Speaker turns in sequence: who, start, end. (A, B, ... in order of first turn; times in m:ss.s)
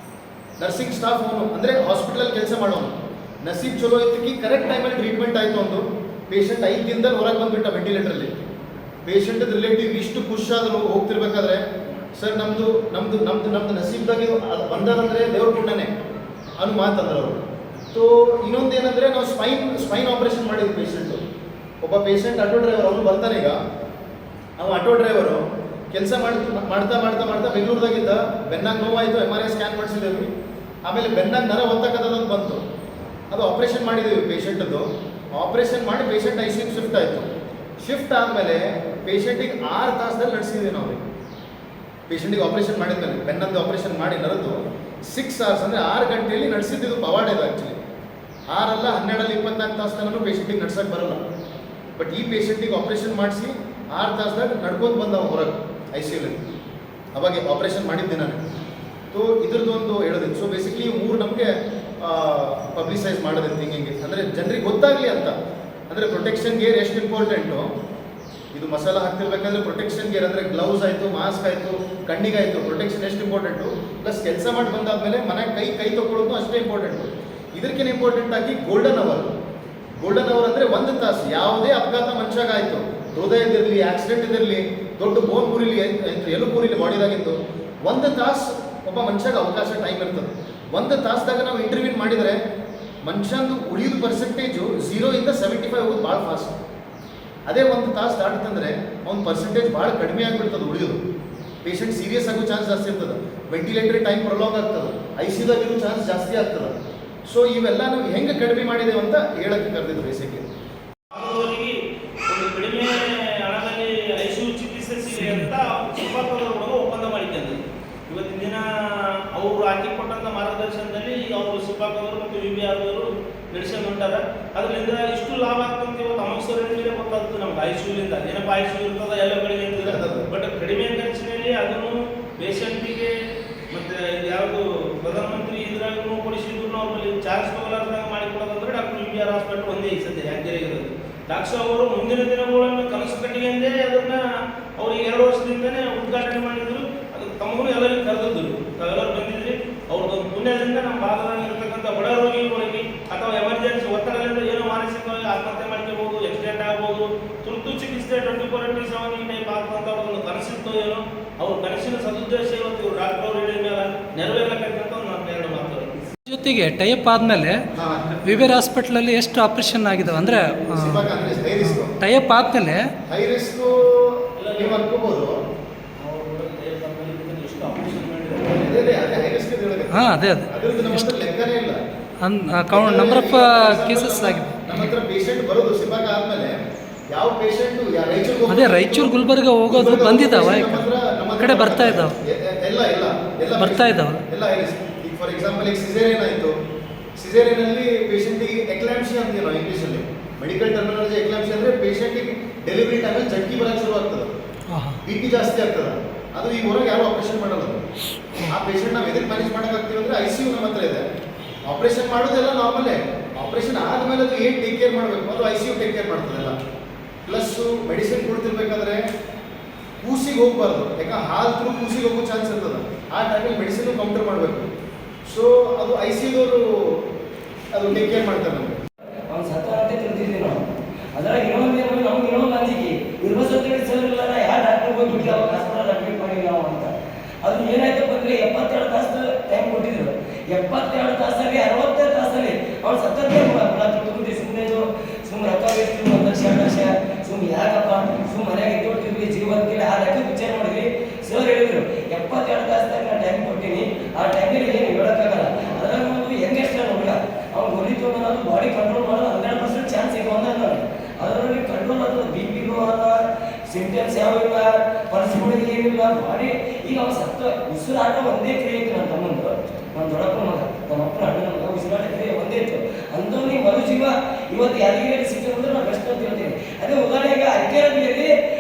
0:00.6-0:08.3 A
0:09.1-0:11.6 A
0:12.2-0:15.9 A
0:16.6-0:17.4 A
0:17.9-0:21.2 A
0:21.8-0:23.6 A
0:24.6-0:30.3 A
0:30.8-0:32.6 A
0:33.3-0:41.0 A
0:42.1-0:47.8 A
0:48.5-0:51.2 A
0:52.0-0:56.4 A
0:57.1-0:58.4 A
0:59.1-1:05.3 A
1:05.9-1:07.7 A
1:08.5-1:19.3 A
1:20.0-1:32.4 A
1:33.0-1:36.5 A
1:37.5-1:41.0 A
1:41.6-1:46.7 A
1:47.3-1:50.4 A
1:51.1-1:51.8 B
1:52.3-2:13.1 B
1:55.2-1:55.5 C
2:09.8-2:10.3 A
2:13.7-2:24.3 B
2:24.8-2:45.9 B
2:46.3-2:47.7 C
2:47.7-2:48.5 A
2:48.2-2:51.1 C
2:50.7-2:52.0 A
2:51.6-2:52.8 C
2:53.1-2:55.4 A
2:54.4-2:54.9 B
2:56.0-2:58.8 B
2:58.5-3:01.8 A
2:59.9-3:01.2 C
3:02.2-3:04.9 C
3:02.7-3:06.6 A
3:07.1-3:16.5 A
3:08.5-3:12.2 C
3:13.6-3:14.2 C
3:17.2-3:24.3 A
3:24.7-3:25.0 C
3:25.0-3:27.8 A
3:28.5-3:31.0 A
3:31.7-3:36.6 A
3:37.3-3:39.0 A
3:40.0-3:44.7 A
3:45.3-3:47.0 A
3:47.7-3:48.8 A
3:49.3-3:50.6 D
3:51.2-4:38.3 D